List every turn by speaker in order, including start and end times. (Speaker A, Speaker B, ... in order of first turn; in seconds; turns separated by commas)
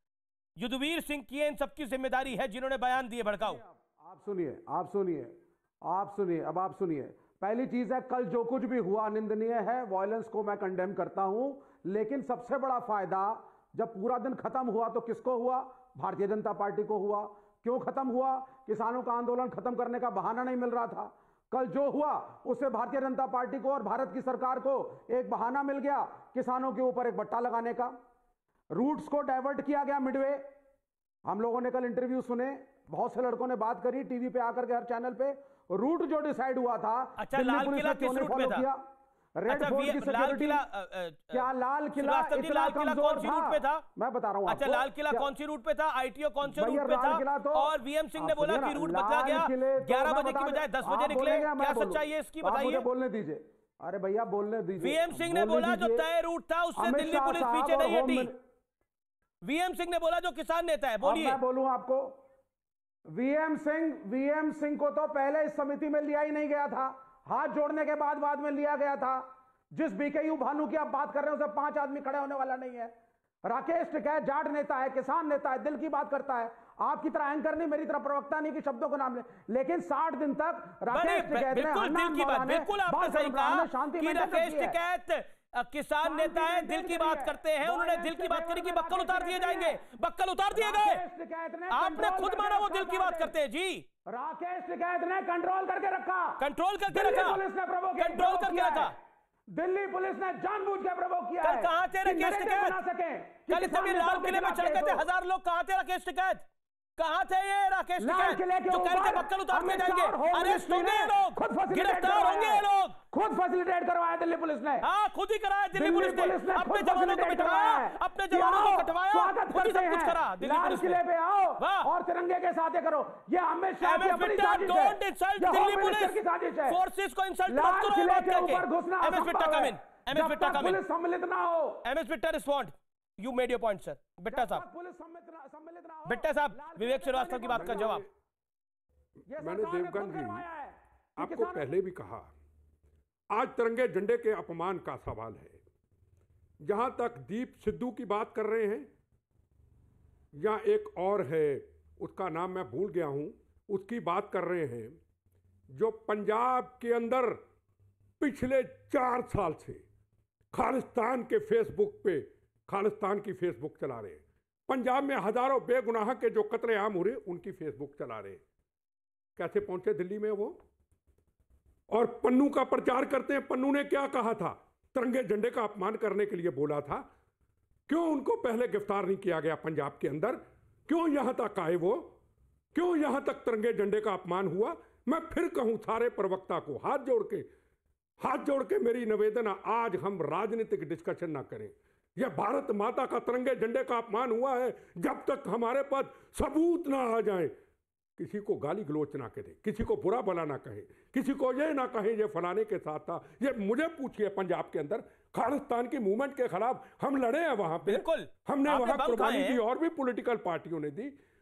Speaker A: 0.6-3.6, Speaker B: 3.4-27.9, Speaker B: 28.7-30.4, Speaker B: 31.2-38.8, Speaker A: 37.2-38.7, Speaker B: 39.4-40.6, Speaker A: 39.5-41.5, Speaker B: 41.3-45.3, Speaker A: 42.0-43.8, Speaker A: 44.5-52.8, Speaker B: 46.4-56.1, Speaker A: 54.8-58.3, Speaker B: 56.8-58.3, Speaker A: 59.4-61.4, Speaker B: 61.0-62.2, Speaker B: 63.1-69.2, Speaker B: 69.7-72.9, Speaker B: 73.5-84.8, Speaker A: 80.9-91.0, Speaker B: 86.0-89.8, Speaker B: 90.5-93.3, Speaker A: 91.7-93.8, Speaker B: 94.1-98.9, Speaker A: 96.4-97.4, Speaker A: 98.0-99.0, Speaker B: 99.5-105.1, Speaker A: 101.4-102.8, Speaker A: 103.5-106.5, Speaker A: 107.0-113.0, Speaker B: 108.0-114.9, Speaker A: 114.8-121.0, Speaker B: 115.7-126.8, Speaker A: 121.6-121.9, Speaker A: 123.8-130.8, Speaker B: 127.5-131.8, Speaker A: 131.8-134.6, Speaker B: 134.3-138.0, Speaker A: 136.1-138.0, Speaker C: 137.5-138.1, Speaker B: 139.3-141.7, Speaker C: 139.4-140.4, Speaker C: 141.2-142.3, Speaker C: 143.3-145.6, Speaker C: 146.6-148.9, Speaker C: 150.3-155.0, Speaker C: 155.7-157.4, Speaker C: 158.2-159.8, Speaker C: 160.5-168.4, Speaker C: 169.3-170.6, Speaker C: 171.9-177.1, Speaker C: 177.9-182.2, Speaker C: 182.7-187.5, Speaker C: 188.2-197.5, Speaker C: 198.2-211.2, Speaker A: 207.8-209.6